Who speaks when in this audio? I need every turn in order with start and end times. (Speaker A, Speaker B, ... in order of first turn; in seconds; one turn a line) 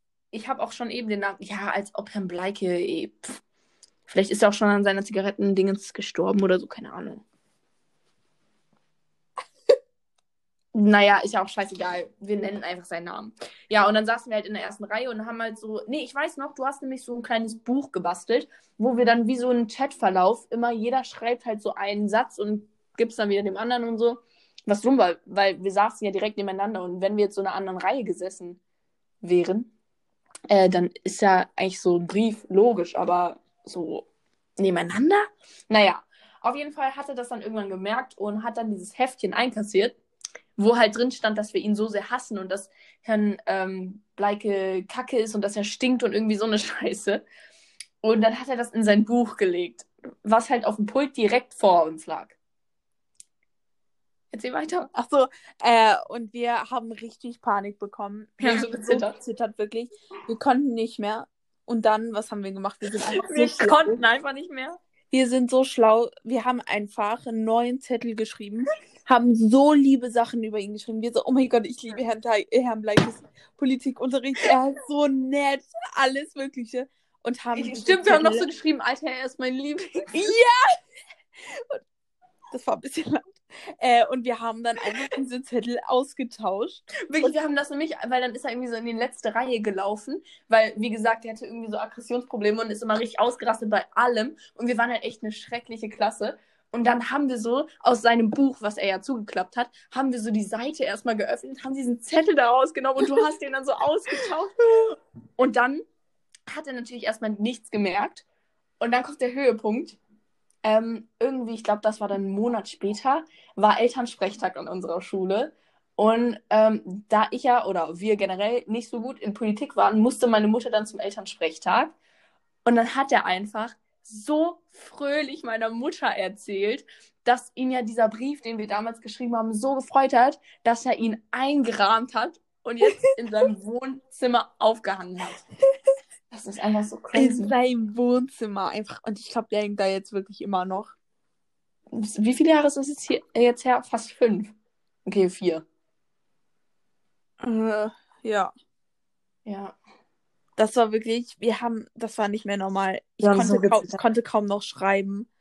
Speaker A: 0.3-3.4
Speaker A: 4.1-7.2
Speaker A: 10.7-28.6
Speaker A: 29.2-29.7
Speaker A: 30.5-34.1
Speaker A: 34.6-40.0
Speaker A: 40.6-47.2
Speaker A: 48.0-52.4
Speaker A: 54.3-54.9
Speaker B: 54.9-64.0
Speaker A: 58.4-59.2
Speaker A: 63.1-64.8
Speaker B: 65.1-78.5
Speaker A: 77.5-80.2
Speaker B: 80.1-80.6
Speaker B: 81.5-81.8
Speaker B: 82.5-87.3
Speaker A: 87.1-105.8
Speaker A: 106.5-108.2
Speaker A: 108.8-110.0
Speaker A: 110.6-121.9
Speaker A: 122.6-135.4
Speaker A: 136.3-137.5
Speaker B: 137.1-140.9
Speaker A: 141.9-144.5
Speaker A: 145.1-145.6
Speaker B: 147.4-148.5
Speaker A: 149.4-149.8
Speaker B: 150.6-155.3
Speaker A: 153.2-154.0